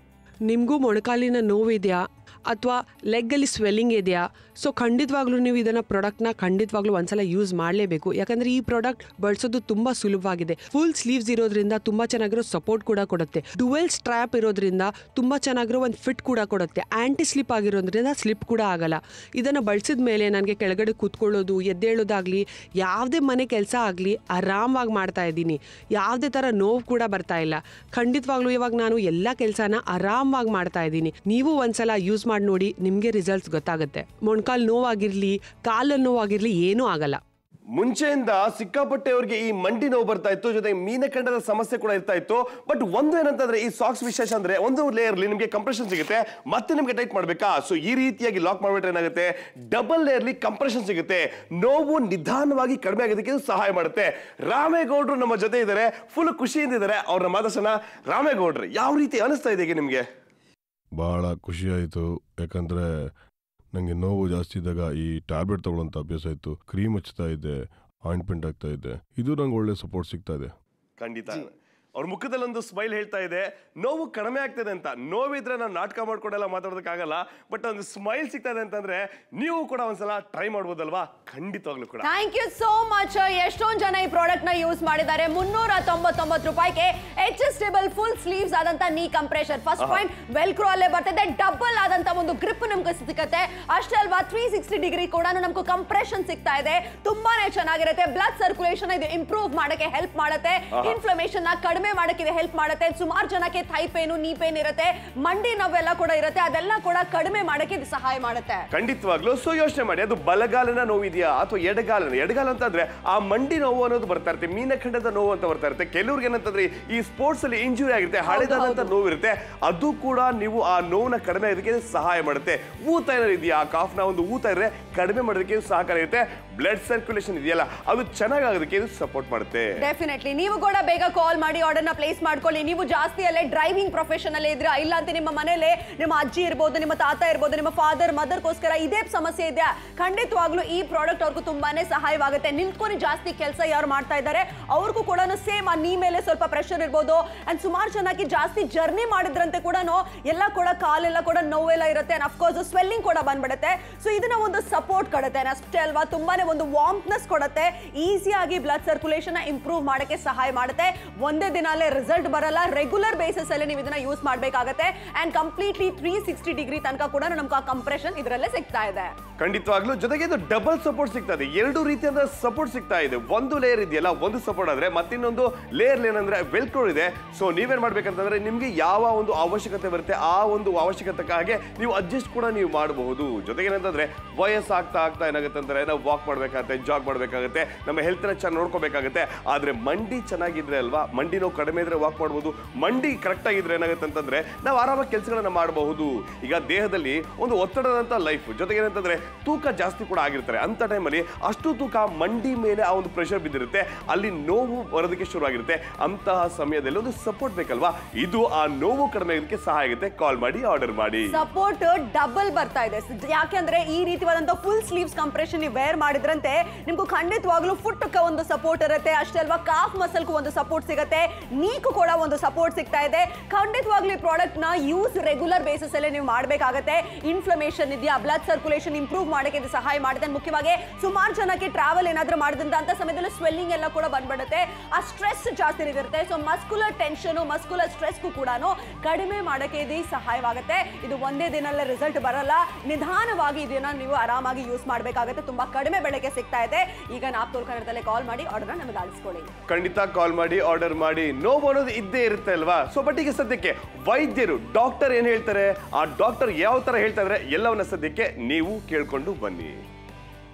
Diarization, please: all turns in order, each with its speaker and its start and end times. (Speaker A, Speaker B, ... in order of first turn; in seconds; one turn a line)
Speaker A: 0.5-37.2
Speaker B: 37.8-60.0
Speaker C: 61.0-62.9
Speaker C: 63.8-67.5
Speaker C: 68.1-70.5
Speaker B: 71.0-82.1
Speaker D: 82.0-108.7
Speaker B: 108.7-129.8
Speaker D: 118.2-118.9
Speaker D: 129.8-169.1
Speaker B: 169.4-211.4
Speaker D: 211.3-249.5
Speaker B: 249.7-259.8